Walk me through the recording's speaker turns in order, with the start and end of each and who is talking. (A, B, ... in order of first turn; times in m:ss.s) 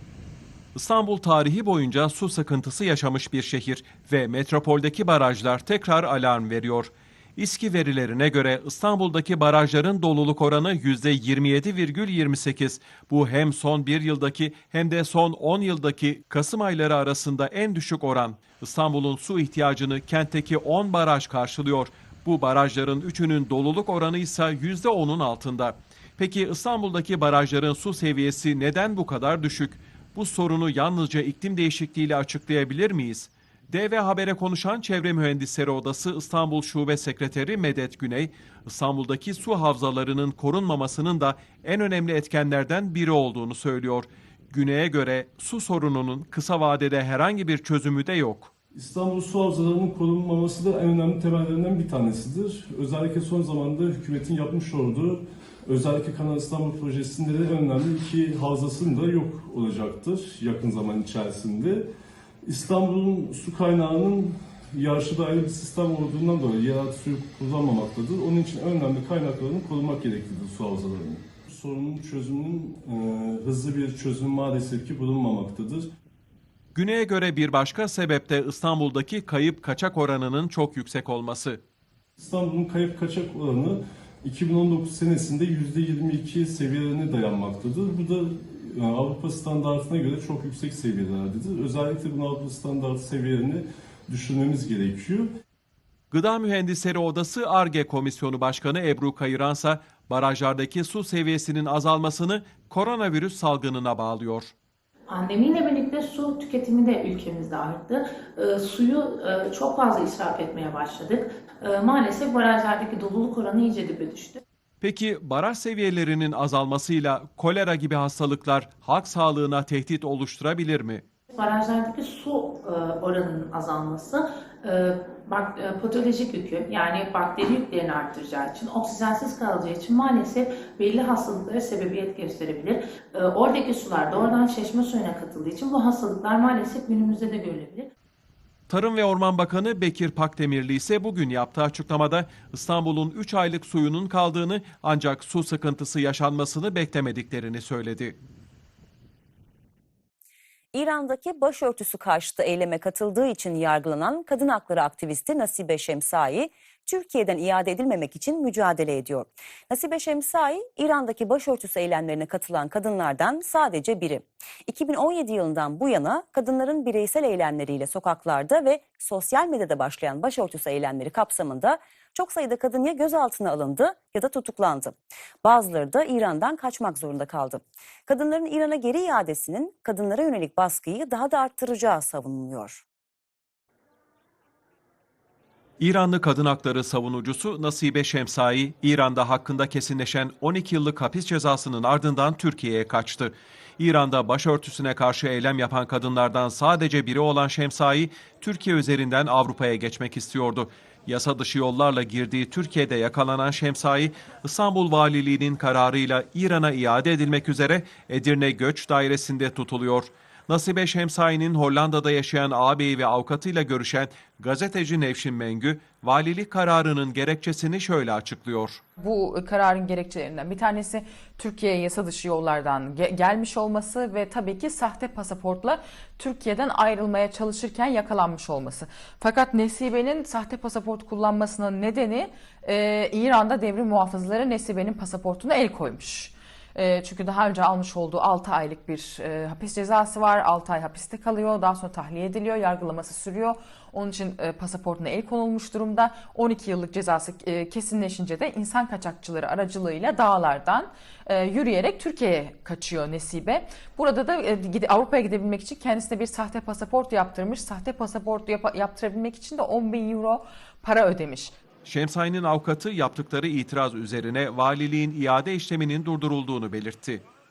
0:00.7-0:48.5 A
0:48.7-1:01.8 B
1:02.4-1:15.9 B
1:16.7-1:21.6 A
1:22.2-1:35.3 B
1:36.1-1:44.5 A
1:45.1-1:54.4 C
1:54.8-2:01.0 A
2:01.3-2:17.9 C
2:18.7-2:28.2 A
2:30.7-3:02.8 D
3:05.8-3:38.8 A
3:39.0-4:21.5 E
4:21.8-4:27.2 A